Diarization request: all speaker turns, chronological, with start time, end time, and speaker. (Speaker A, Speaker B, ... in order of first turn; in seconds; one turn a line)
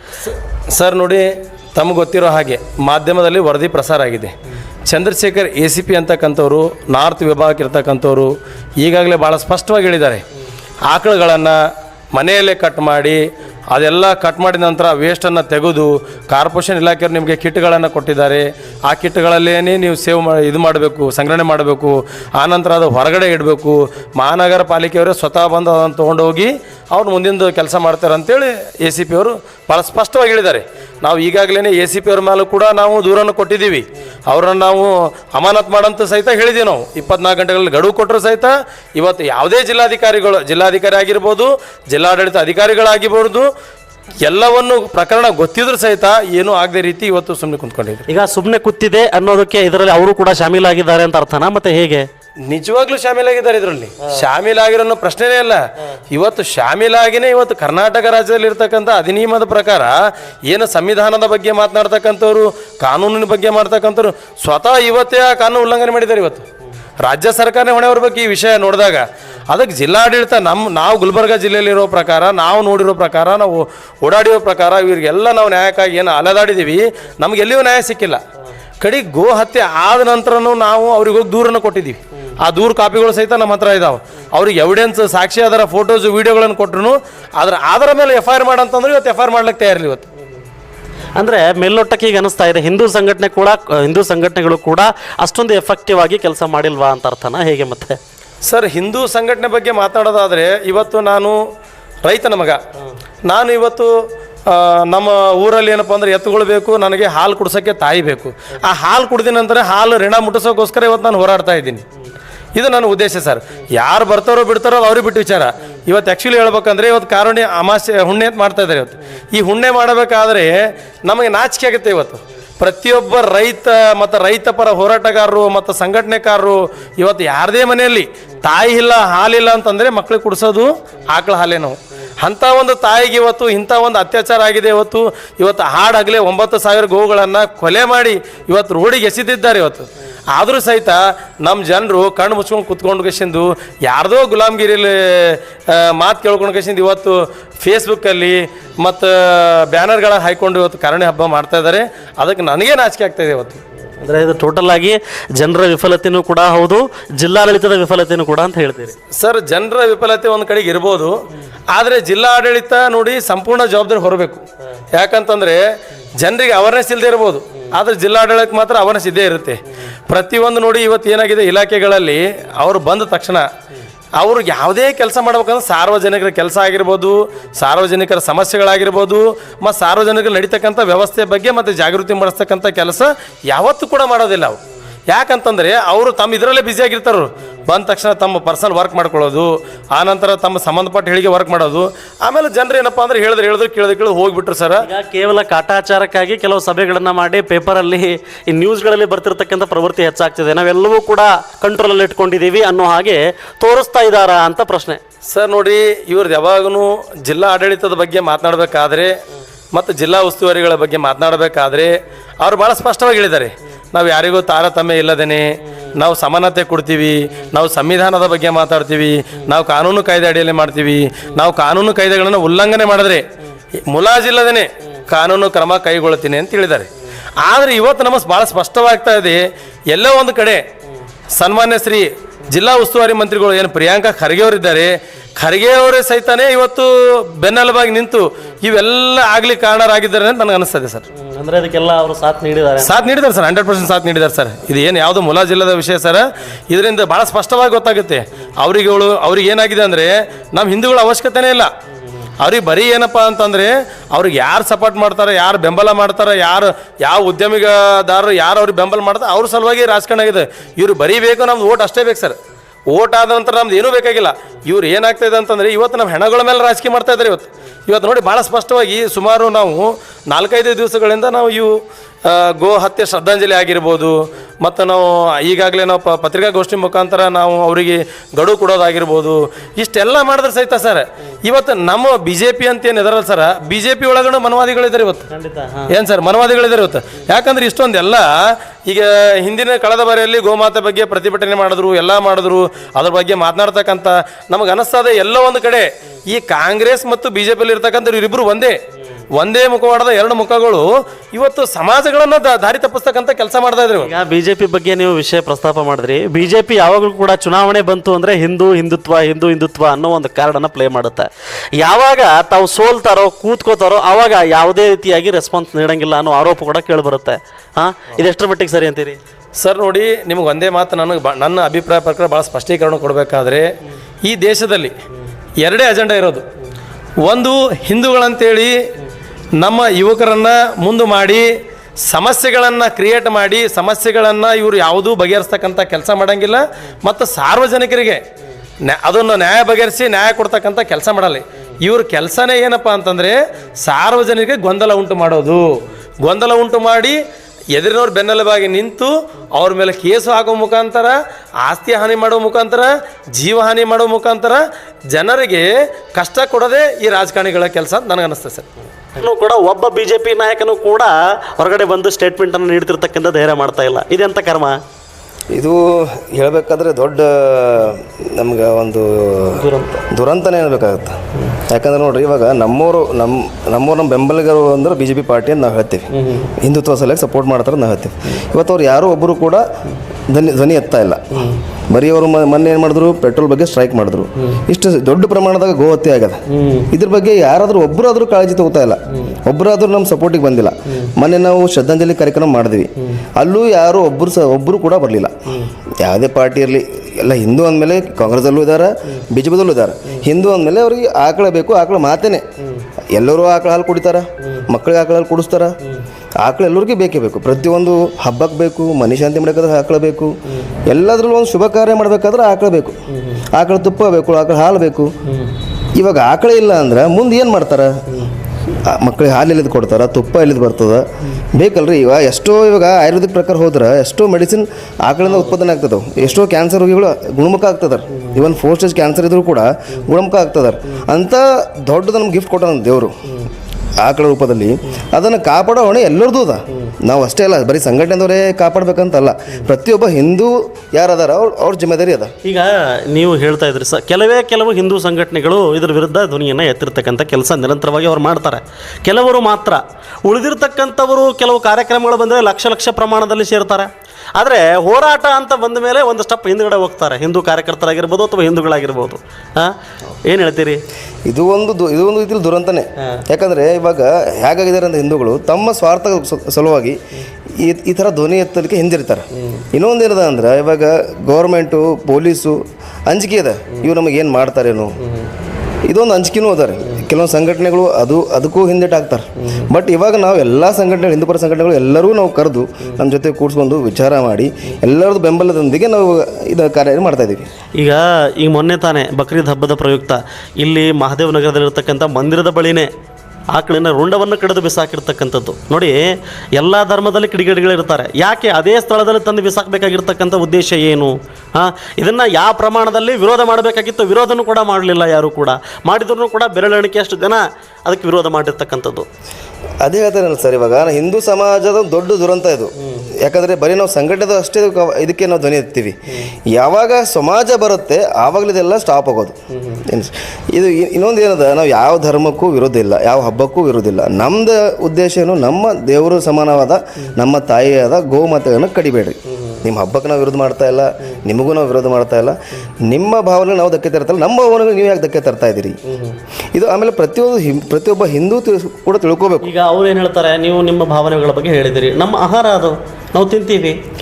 Speaker A: 0.3-4.3
Speaker A: 4.9-10.2
Speaker A: 10.9-11.6
Speaker A: 12.1-43.5
Speaker A: 44.3-48.1
Speaker B: 48.1-52.1
Speaker A: 52.5-60.0
Speaker A: 60.5-66.5
Speaker A: 67.0-78.2
Speaker A: 78.8-90.1
Speaker B: 91.2-98.0
Speaker A: 98.5-101.4
Speaker A: 102.1-102.6
Speaker A: 103.3-103.9
Speaker A: 104.5-111.8
Speaker A: 112.6-153.6
Speaker B: 154.0-159.0
Speaker A: 159.2-161.1
Speaker A: 161.7-164.4
Speaker A: 164.9-165.6
Speaker A: 166.2-173.5
Speaker A: 174.2-194.8
Speaker B: 194.8-205.0
Speaker A: 205.3-209.2
Speaker A: 209.7-223.2
Speaker A: 223.9-230.6
Speaker A: 231.4-241.1
Speaker B: 241.1-243.1
Speaker A: 242.8-251.7
Speaker A: 252.4-262.4
Speaker A: 262.9-271.7
Speaker A: 272.2-285.3
Speaker B: 285.3-285.9
Speaker A: 285.9-298.8
Speaker A: 299.4-304.1
Speaker B: 304.0-319.2
Speaker A: 319.6-323.7
Speaker A: 324.2-324.9
Speaker A: 325.6-326.4
Speaker A: 327.2-328.8
Speaker A: 329.6-331.5
Speaker A: 332.1-338.2
Speaker A: 338.9-345.7
Speaker A: 346.2-347.2
Speaker A: 347.7-358.7
Speaker B: 359.2-364.8
Speaker C: 365.5-371.2
Speaker B: 369.6-370.0
Speaker C: 371.7-379.6
Speaker B: 376.1-376.5
Speaker C: 380.3-386.4
Speaker B: 386.5-386.9
Speaker C: 386.9-395.3
Speaker C: 396.0-402.4
Speaker B: 402.6-402.9
Speaker C: 403.1-405.8
Speaker C: 406.4-410.4
Speaker C: 410.9-413.0
Speaker B: 413.1-413.4
Speaker C: 413.5-415.1
Speaker B: 415.3-415.5
Speaker C: 416.0-418.0
Speaker C: 418.9-433.1
Speaker B: 425.3-425.6
Speaker C: 434.0-442.3
Speaker B: 442.4-459.8
Speaker B: 460.3-460.8
Speaker C: 461.3-467.0
Speaker C: 467.6-475.0
Speaker B: 475.0-475.3
Speaker C: 475.9-487.5
Speaker B: 487.8-492.9
Speaker B: 493.5-496.0
Speaker B: 496.6-509.1
Speaker C: 509.8-516.0
Speaker C: 516.5-535.8
Speaker B: 519.5-519.8
Speaker B: 535.9-536.2
Speaker C: 536.5-539.5
Speaker B: 539.4-543.8